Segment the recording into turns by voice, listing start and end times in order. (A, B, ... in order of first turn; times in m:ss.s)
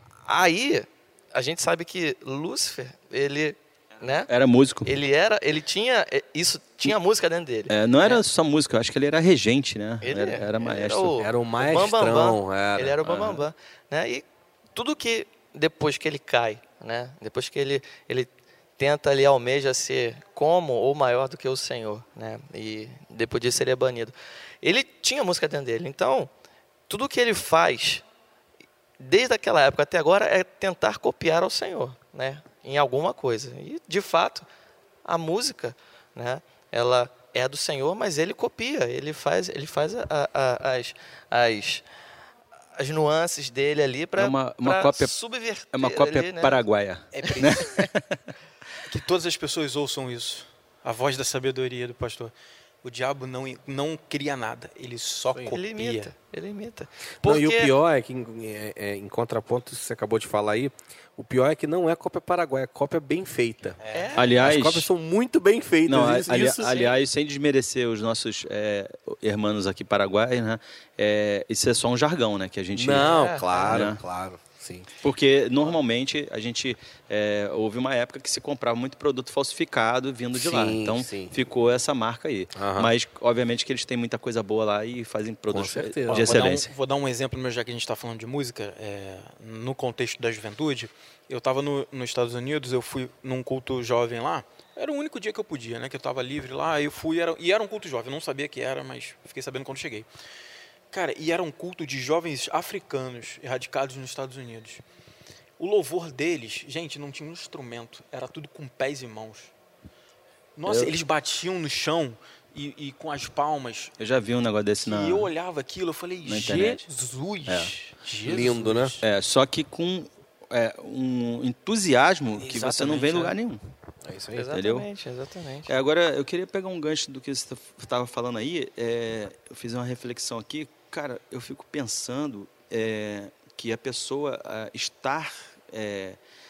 0:00.2-0:04.3 A
0:04.3-0:04.9 B
0:04.8-0:08.2 A
0:07.7-0:11.2 B
0:10.0-0:26.3 A
0:11.2-0:13.0 C
0:13.0-0:13.4 B
0:26.9-0:28.0 A
0:29.0-0:34.5 A
0:35.0-0:41.8 A
0:42.8-0:46.6 A
0:44.2-0:45.1 B
0:45.7-0:48.3 B
0:47.1-0:47.8 D
0:48.9-0:52.3 D
0:52.8-0:56.1 D
0:55.4-0:57.7 A
0:57.2-1:03.8 C
1:03.8-1:04.2 D
1:03.9-1:04.5 A
1:04.1-1:04.9 B
1:04.3-1:06.8 C
1:05.9-1:14.0 B
1:06.6-1:06.9 A
1:12.7-1:14.9 C
1:12.9-1:13.9 A
1:15.0-1:26.7 B
1:20.3-1:21.4 C
1:22.5-1:22.9 C
1:25.5-1:26.5 C
1:26.1-1:40.1 D
1:40.9-1:44.8 D
1:45.6-1:49.5 D
1:50.6-1:53.9 D
1:50.7-1:50.9 B
1:54.0-1:55.3 B
1:54.8-1:59.0 D
1:56.2-1:56.8 B
1:57.5-1:57.7 B
1:58.2-1:59.0 C
1:59.0-2:03.6 B
2:02.4-2:03.4 D
2:04.1-2:04.4 C
2:04.4-2:05.7 A
2:04.5-2:04.9 B
2:05.7-2:16.2 B